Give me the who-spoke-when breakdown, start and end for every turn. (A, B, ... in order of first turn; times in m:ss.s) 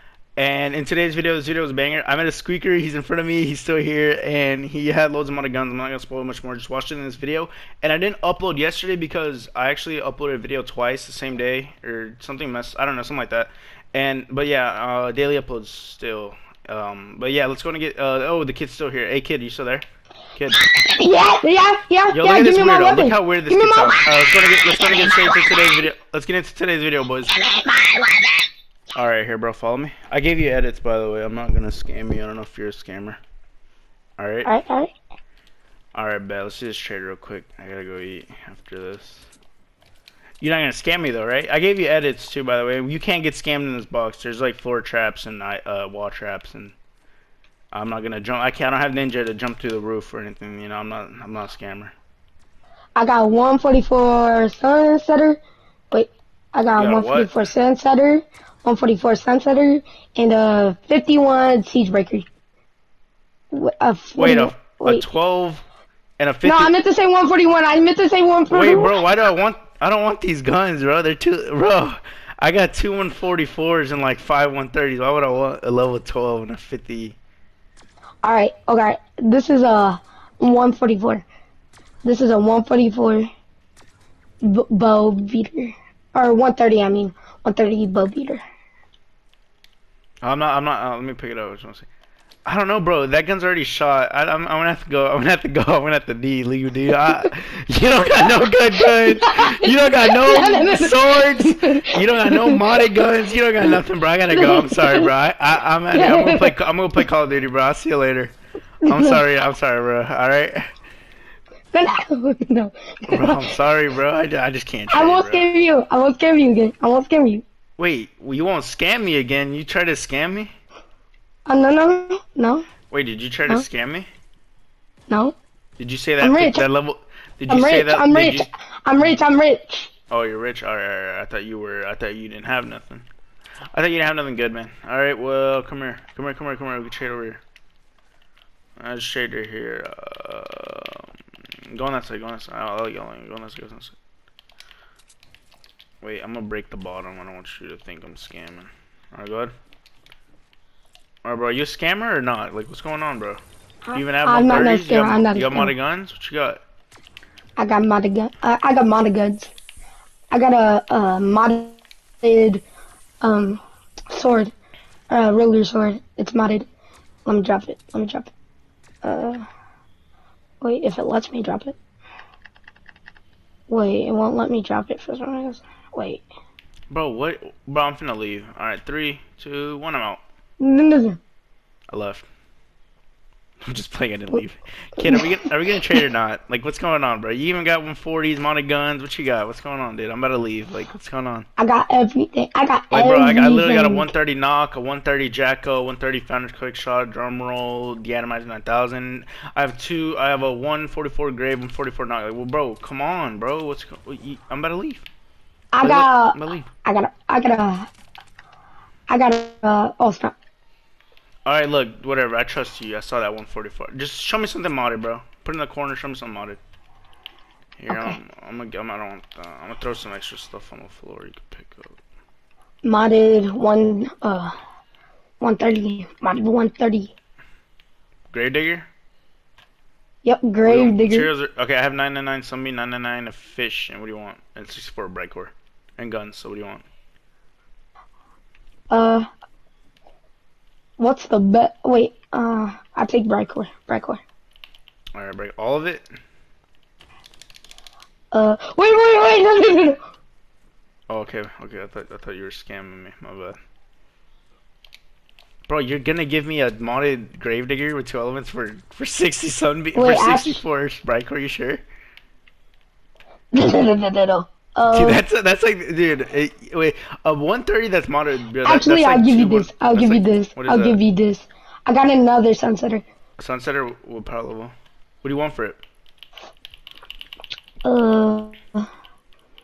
0:00.4-0:20.6 A
0:20.6-0:24.1 B
0:22.1-0:27.4 A
0:24.8-0:25.6 B
0:27.3-0:28.4 B
0:28.9-0:33.2 A
0:34.2-0:34.5 A
0:34.4-0:34.9 B
0:35.9-0:39.3 A
0:40.4-0:46.7 A
0:47.7-0:51.9 A
0:53.0-0:55.4 B
0:55.9-1:02.2 B
0:56.7-0:57.4 A
1:03.5-1:05.0 B
1:04.2-1:05.6 A
1:06.2-1:06.7 A
1:06.4-1:09.0 B
1:08.5-1:17.2 A
1:18.2-1:21.2 B
1:22.0-1:23.3 B
1:24.4-1:28.4 B
1:30.2-1:31.9 A
1:32.4-1:48.3 A
1:38.8-1:42.6 B
1:44.3-1:45.1 B
1:45.9-1:46.5 B
1:48.8-1:49.2 B
1:48.9-1:50.7 A
1:51.7-1:53.5 B
1:53.1-1:55.4 A
1:54.9-1:57.4 B
1:57.8-2:00.5 A
2:01.5-2:02.6 B
2:02.9-2:04.1 A
2:05.1-2:05.4 B
2:05.8-2:08.5 A
2:06.2-2:06.6 B
2:07.5-2:09.9 B
2:10.1-2:13.0 A
2:13.7-2:17.4 A
2:18.8-2:21.1 A
2:21.7-2:23.9 A
2:26.0-2:29.5 A
2:31.2-2:33.4 A
2:33.9-2:35.7 B
2:33.9-2:36.6 A
2:37.6-2:39.5 B
2:40.3-2:42.6 B
2:43.2-2:44.5 B
2:45.1-2:46.6 B
2:47.2-2:48.3 B
2:49.0-2:49.4 B
2:50.6-2:51.8 B
2:53.7-2:56.2 B
2:56.9-3:00.2 A
3:00.6-3:01.2 B
3:01.9-3:02.2 A
3:03.6-3:11.4 A
3:05.0-3:05.4 B
3:11.6-3:14.1 B
3:12.9-3:25.0 A
3:25.7-3:27.9 B
3:25.8-3:26.7 A
3:29.1-3:30.3 B
3:31.4-3:36.6 A
3:37.8-3:42.0 A
3:37.9-3:38.2 B
3:42.8-3:44.5 B
3:45.4-3:47.1 B
3:48.3-3:48.9 A
3:50.2-3:51.3 B
3:50.6-3:56.8 A
3:58.9-3:59.3 B
4:01.0-4:04.2 B
4:05.1-4:06.0 A
4:08.3-4:10.0 B
4:11.1-4:13.6 A
4:15.7-4:21.8 A
4:19.9-4:20.6 B
4:23.5-4:25.2 B
4:24.9-4:31.0 A
4:28.6-4:33.0 B
4:33.4-4:35.8 A
4:37.8-4:38.8 B